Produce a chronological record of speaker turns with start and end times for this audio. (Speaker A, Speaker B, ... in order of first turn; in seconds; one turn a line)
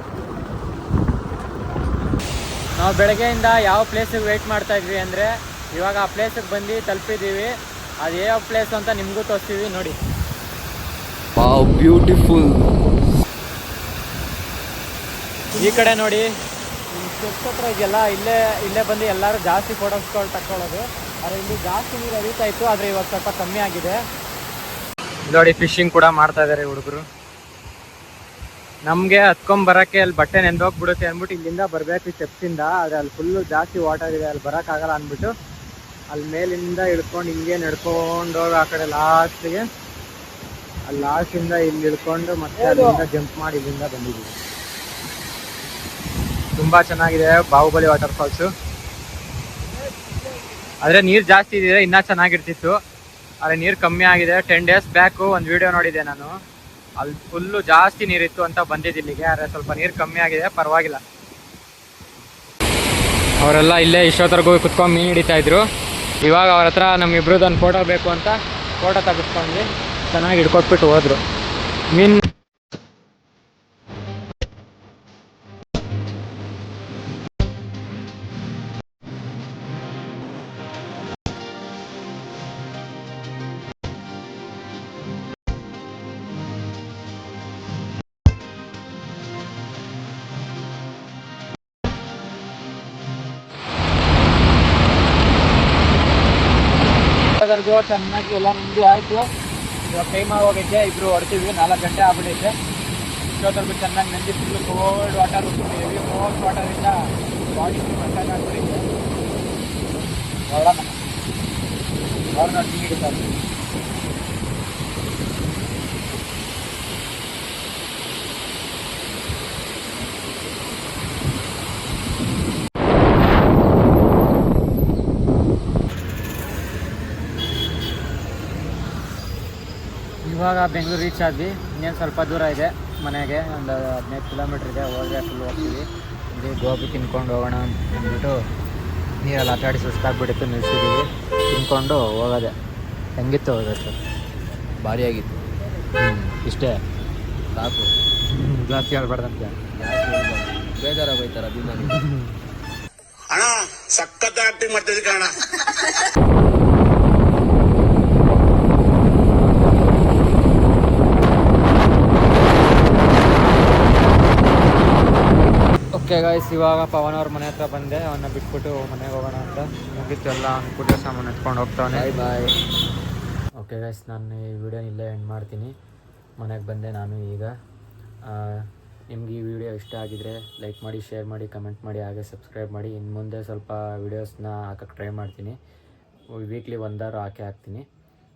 Speaker A: 2.8-10.0
Speaker B: 11.4-12.6
Speaker A: 15.5-16.3
Speaker A: 16.9-24.0
Speaker A: 25.2-27.1
Speaker A: 28.9-35.3
Speaker A: 36.1-39.6
Speaker A: 40.9-44.4
Speaker A: 46.5-48.5
Speaker A: 50.8-52.8
Speaker A: 53.4-56.4
Speaker A: 57.0-61.0
Speaker A: 63.4-65.6
Speaker A: 66.2-71.2
Speaker A: 71.9-72.2
Speaker A: 97.3-99.3
Speaker A: 99.9-102.6
Speaker A: 103.3-108.8
Speaker A: 110.5-111.0
Speaker A: 112.3-113.3
Speaker A: 130.2-138.4
Speaker A: 139.2-142.5
Speaker A: 143.2-144.0
Speaker B: 144.8-145.4
Speaker A: 146.0-146.8
Speaker B: 147.6-147.9
Speaker A: 148.3-149.5
Speaker B: 149.8-152.0
Speaker A: 151.8-152.4
Speaker C: 153.3-155.3
Speaker A: 165.9-172.1
Speaker B: 171.9-172.6
Speaker A: 173.6-175.7
Speaker A: 176.4-177.5
Speaker A: 178.3-185.6
Speaker A: 186.4-187.9